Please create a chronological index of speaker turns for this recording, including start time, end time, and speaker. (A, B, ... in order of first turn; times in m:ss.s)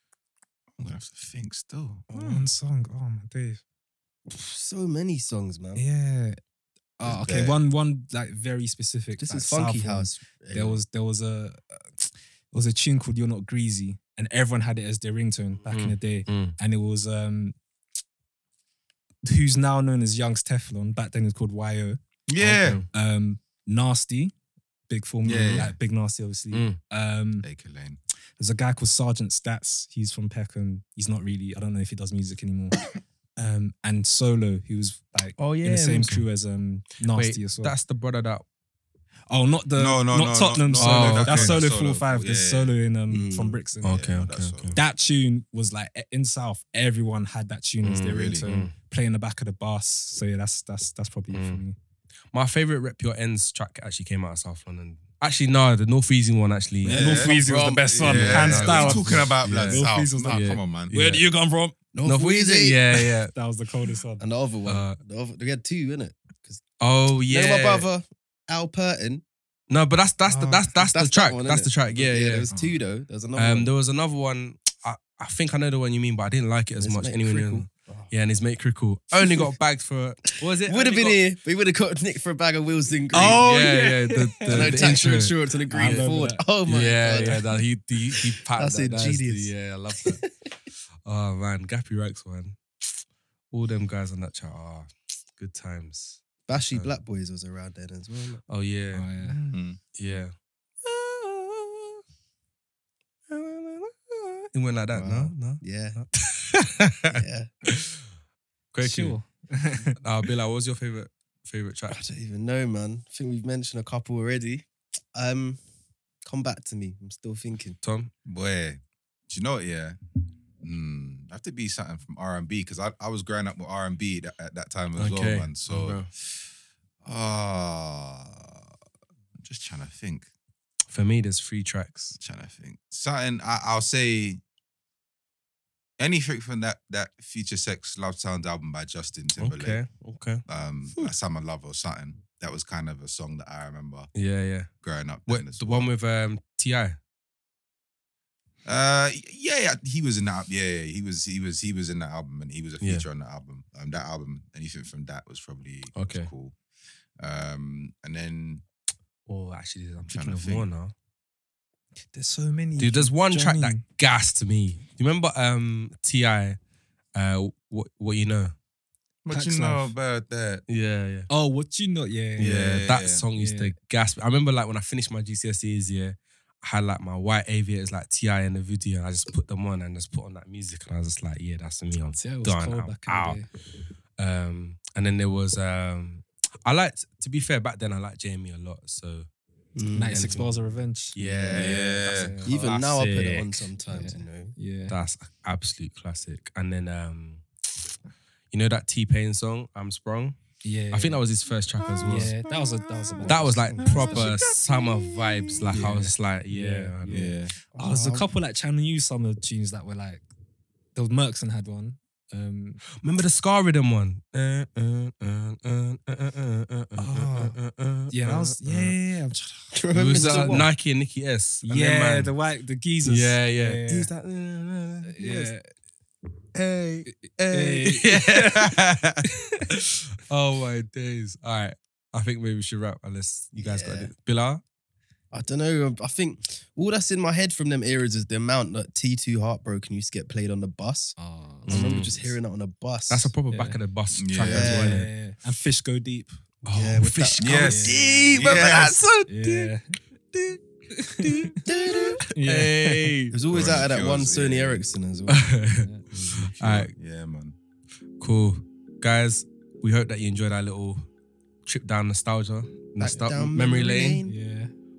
0:00.8-0:02.2 A
0:02.1-0:03.6 B
0:02.1-0:02.4 C
0:04.3-0:05.8 C
0:05.7-0:06.4 B
0:07.0-0:17.6 B
0:07.1-0:07.6 C
0:09.2-0:10.8 C
0:15.7-0:16.5 D
0:19.2-0:24.3 B
0:22.3-0:22.8 A
0:24.9-0:27.5 B
0:25.2-0:25.7 A
0:25.4-0:25.7 D
0:26.5-0:26.8 D
0:27.4-0:28.0 A
0:28.4-0:32.8 B
0:33.4-0:37.7 B
0:35.4-0:36.2 D
0:37.1-0:38.4 D
0:39.3-0:44.0 B
0:39.8-0:42.7 A
0:40.8-0:41.6 D
0:43.1-0:43.6 C
0:43.8-0:44.8 D
0:43.8-0:44.8 A
0:44.7-0:51.7 B
0:47.8-0:48.7 D
0:48.1-0:48.4 A
0:51.3-0:51.6 D
0:52.3-0:57.0 D
0:56.8-1:01.8 B
0:56.9-0:58.8 C
0:56.9-1:01.2 A
0:58.0-1:00.6 D
1:01.9-1:02.9 C
1:02.0-1:03.3 D
1:03.3-1:04.2 B
1:04.2-1:06.6 C
1:04.6-1:05.0 D
1:06.8-1:07.9 D
1:07.3-1:09.2 C
1:09.7-1:12.4 D
1:10.8-1:13.7 C
1:12.5-1:12.8 B
1:13.3-1:21.2 D
1:16.8-1:18.1 C
1:19.1-1:19.5 C
1:20.6-1:23.8 C
1:23.1-1:25.0 B
1:23.2-1:26.1 D
1:24.4-1:27.6 C
1:25.7-1:26.4 B
1:26.6-1:30.2 D
1:28.1-1:29.5 C
1:31.0-1:33.0 D
1:33.5-1:37.0 D
1:36.5-1:38.4 C
1:38.5-1:39.4 D
1:38.9-1:39.5 B
1:39.5-1:39.8 A
1:39.9-1:42.0 D
1:43.3-1:48.0 D
1:44.9-1:46.0 C
1:47.1-1:47.5 C
1:48.7-1:49.2 D
1:48.8-1:50.0 B
1:50.0-1:52.0 D
1:51.9-1:55.6 C
1:56.2-1:57.8 C
1:57.8-1:58.1 D
1:58.2-2:00.0 A
2:00.6-2:06.5 A
2:05.0-2:06.1 D
2:07.0-2:08.7 A
2:09.4-2:10.3 A
2:10.9-2:12.2 D
2:12.2-2:14.4 A
2:16.0-2:19.8 A
2:19.4-2:20.4 D
2:20.5-2:24.1 A
2:24.1-2:24.7 D
2:24.8-2:25.9 A
2:25.3-2:27.0 D
2:28.6-2:36.5 A
2:35.9-2:36.3 D
2:37.2-2:38.6 A
2:39.3-2:40.9 D
2:40.0-2:40.7 A
2:42.1-2:43.8 B
2:42.8-2:46.6 D
2:47.1-2:48.5 D
2:49.2-2:50.6 A
2:49.3-2:49.9 B
2:50.7-2:51.3 D
2:51.3-2:52.6 B
2:52.4-2:53.2 A
2:52.4-3:03.4 D
2:53.3-2:53.7 B
3:02.2-3:03.5 B
3:04.2-3:09.3 D
3:09.7-3:10.5 C
3:09.9-3:11.2 B
3:10.1-3:10.5 D
3:11.1-3:13.7 D
3:11.2-3:11.8 C
3:11.5-3:12.3 A
3:12.1-3:12.5 B
3:12.4-3:14.5 C
3:13.9-3:15.0 B
3:14.9-3:17.4 D
3:18.5-3:20.4 D
3:20.6-3:21.2 B
3:20.9-3:22.3 D
3:21.8-3:25.9 A
3:22.0-3:23.8 B
3:23.3-3:27.3 D
3:23.7-3:24.3 C
3:25.7-3:30.2 B
3:27.1-3:27.5 A
3:27.7-3:28.3 C
3:30.9-3:32.8 B
3:33.0-3:38.9 D
3:37.0-3:37.6 B
3:38.1-3:40.7 B
3:39.7-3:40.7 C
3:39.9-3:42.3 D
3:41.6-3:44.1 B
3:43.0-3:45.5 D
3:45.0-3:45.6 B
3:46.5-3:54.6 D
3:47.2-3:49.6 B
3:53.6-3:54.1 C
3:55.3-4:03.3 C
4:01.2-4:02.2 B
4:01.7-4:02.2 D
4:03.1-4:05.1 D
4:03.5-4:03.8 B
4:04.2-4:04.9 A
4:04.4-4:05.1 C
4:04.6-4:06.4 B
4:06.6-4:09.7 D
4:06.7-4:08.9 C
4:07.4-4:09.0 A
4:07.6-4:08.1 B
4:09.3-4:10.0 B
4:10.3-4:10.6 D
4:10.9-4:11.6 B
4:11.2-4:13.8 D
4:11.6-4:12.2 C
4:12.3-4:13.1 B
4:13.3-4:15.6 C
4:13.5-4:14.8 A
4:15.3-4:16.9 D
4:15.8-4:16.1 B
4:16.6-4:17.6 A
4:18.2-4:21.0 D
4:21.6-4:24.2 D
4:23.0-4:24.3 C
4:24.2-4:24.7 B